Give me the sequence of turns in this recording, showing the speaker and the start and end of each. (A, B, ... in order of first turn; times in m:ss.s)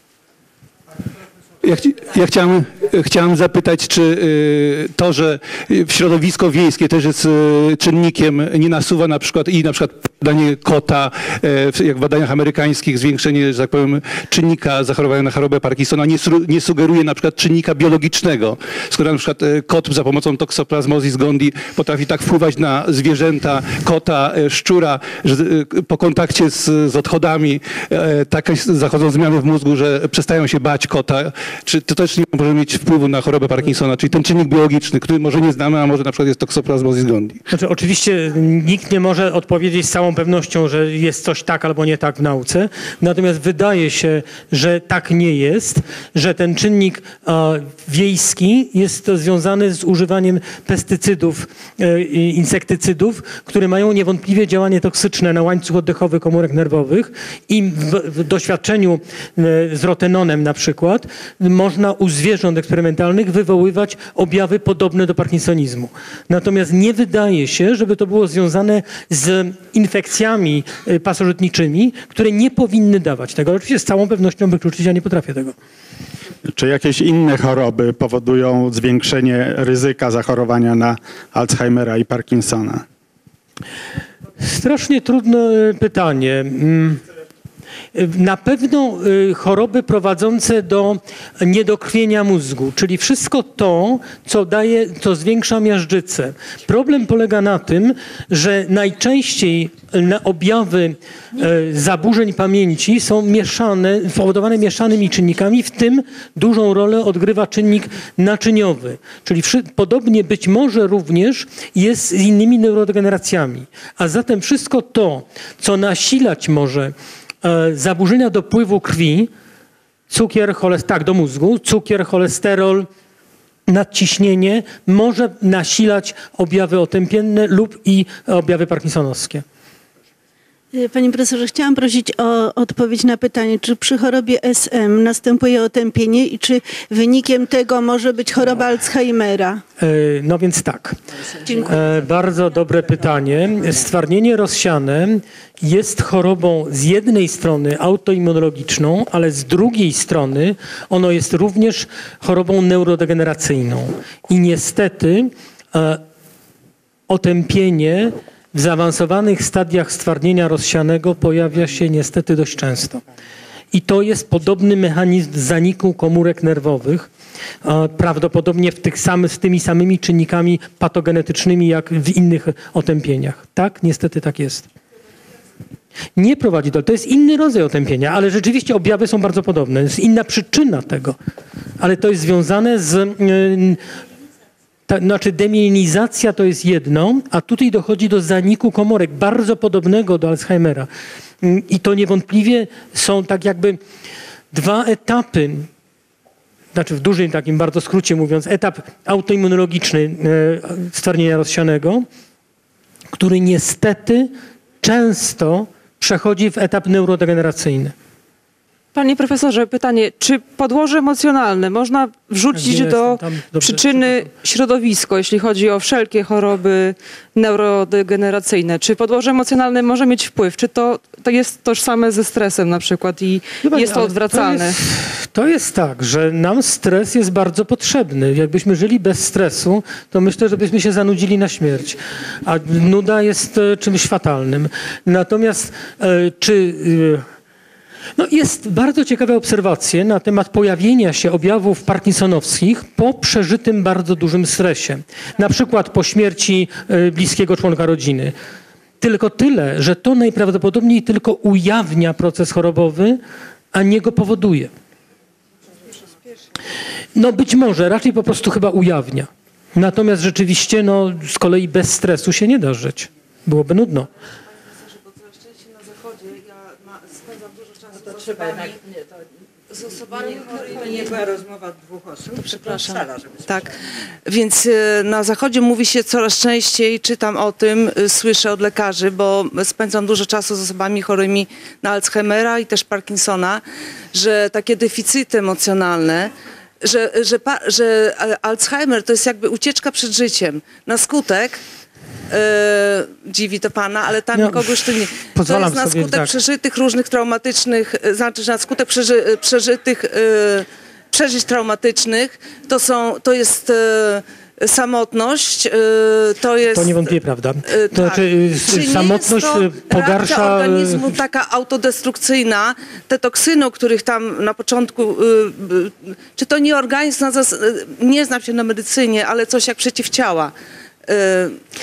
0:01.6-0:37.4 A
0:37.5-1:15.6 B
1:16.5-1:22.8 C
1:24.4-1:27.0 B
1:28.0-1:59.3 B
2:00.1-2:02.9 B
2:03.7-2:09.4 B
2:10.7-2:19.6 D
2:19.8-2:21.0 B
2:21.5-2:36.0 B
2:37.1-2:43.0 B
2:43.7-2:47.1 B
2:47.6-2:54.7 B
2:56.2-3:01.2 B
3:01.8-3:03.8 B
3:04.9-3:10.9 B
3:11.4-3:13.8 B
3:14.5-3:15.7 B
3:16.7-3:22.1 B
3:23.1-3:27.9 B
3:28.9-3:44.8 E
3:32.5-3:34.3 B
3:43.6-3:57.3 B
3:58.2-4:08.4 B
4:09.0-4:13.2 B
4:13.7-4:14.7 B
4:17.2-4:24.1 B
4:24.7-4:28.8 F
4:29.7-4:31.1 F
4:30.8-4:33.2 G
4:32.4-4:51.6 F
4:52.3-5:07.1 F
4:54.3-4:56.3 B
5:06.7-5:11.2 B
5:07.7-5:20.5 F
5:21.1-5:21.6 F